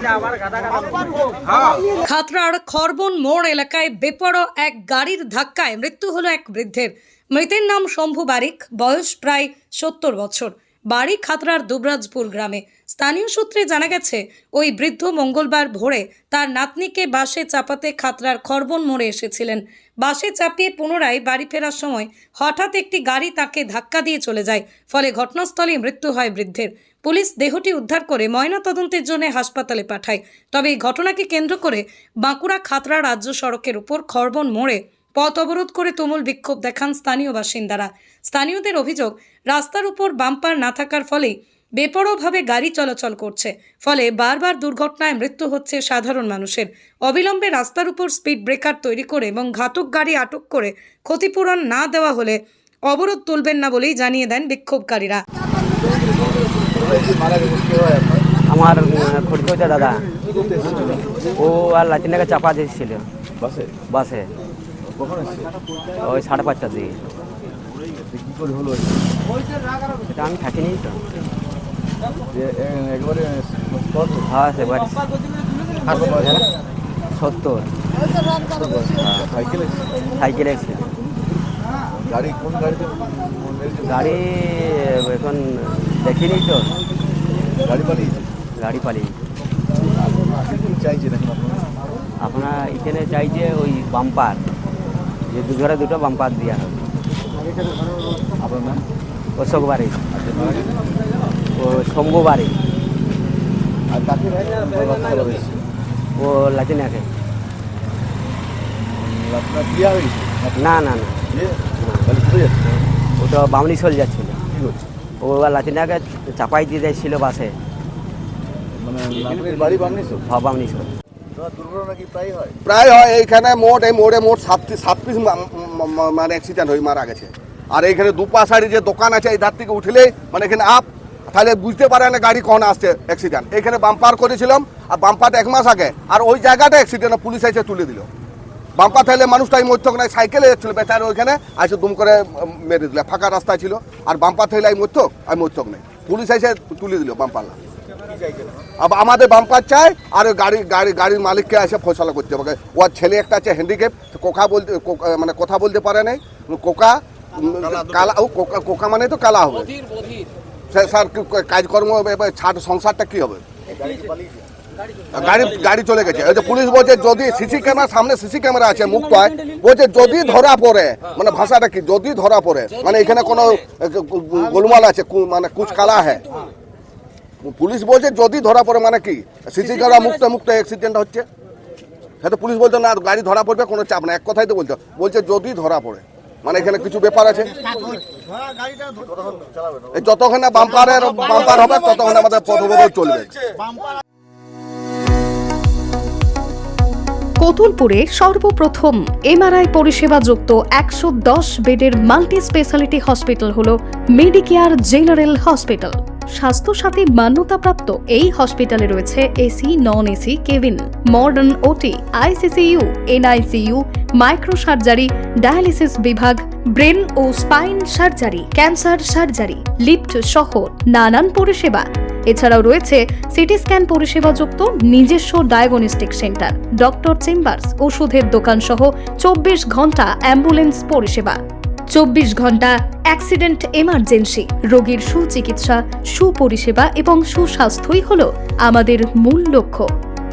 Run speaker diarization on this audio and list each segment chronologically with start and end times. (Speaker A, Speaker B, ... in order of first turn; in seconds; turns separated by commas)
Speaker A: 2.0-55.2, Speaker B: 56.7-58.3, Speaker C: 58.5-60.0, Speaker B: 60.2-61.1, Speaker C: 61.3-63.0, Speaker B: 63.4-63.8, Speaker C: 63.9-64.3, Speaker B: 64.9-65.5, Speaker C: 66.0-67.0, Speaker B: 68.1-69.0, Speaker C: 70.0-71.0, Speaker B: 72.3-74.3, Speaker C: 74.3-75.0, Speaker B: 75.9-76.4, Speaker C: 75.9-76.4, Speaker C: 77.1-77.7, Speaker B: 78.5-80.0, Speaker C: 79.0-79.3, Speaker C: 80.2-80.9, Speaker B: 82.0-84.2, Speaker C: 83.9-86.7, Speaker B: 87.6-88.4, Speaker C: 88.5-89.1, Speaker B: 90.2-91.7, Speaker C: 92.2-94.4, Speaker C: 95.3-96.8, Speaker B: 98.4-98.8, Speaker C: 99.4-100.0, Speaker B: 100.1-100.7, Speaker C: 101.5-102.6, Speaker B: 103.9-105.6, Speaker C: 106.2-107.0, Speaker B: 109.0-110.8, Speaker C: 110.5-111.2, Speaker B: 111.3-112.7, Speaker C: 111.8-112.1, Speaker C: 113.2-114.4, Speaker B: 114.5-114.9, Speaker C: 115.2-117.5, Speaker B: 118.8-120.2, Speaker C: 120.2-120.9, Speaker B: 121.3-122.5, Speaker D: 122.6-138.1, Speaker D: 138.8-147.6, Speaker B: 148.1-148.7, Speaker D: 148.8-159.7, Speaker D: 160.7-163.4, Speaker B: 163.8-164.4, Speaker D: 165.1-176.2, Speaker D: 177.4-181.2, Speaker D: 182.2-187.7, Speaker B: 188.9-189.9, Speaker D: 189.9-193.4, Speaker E: 197.4-231.4, Speaker E: 231.9-239.9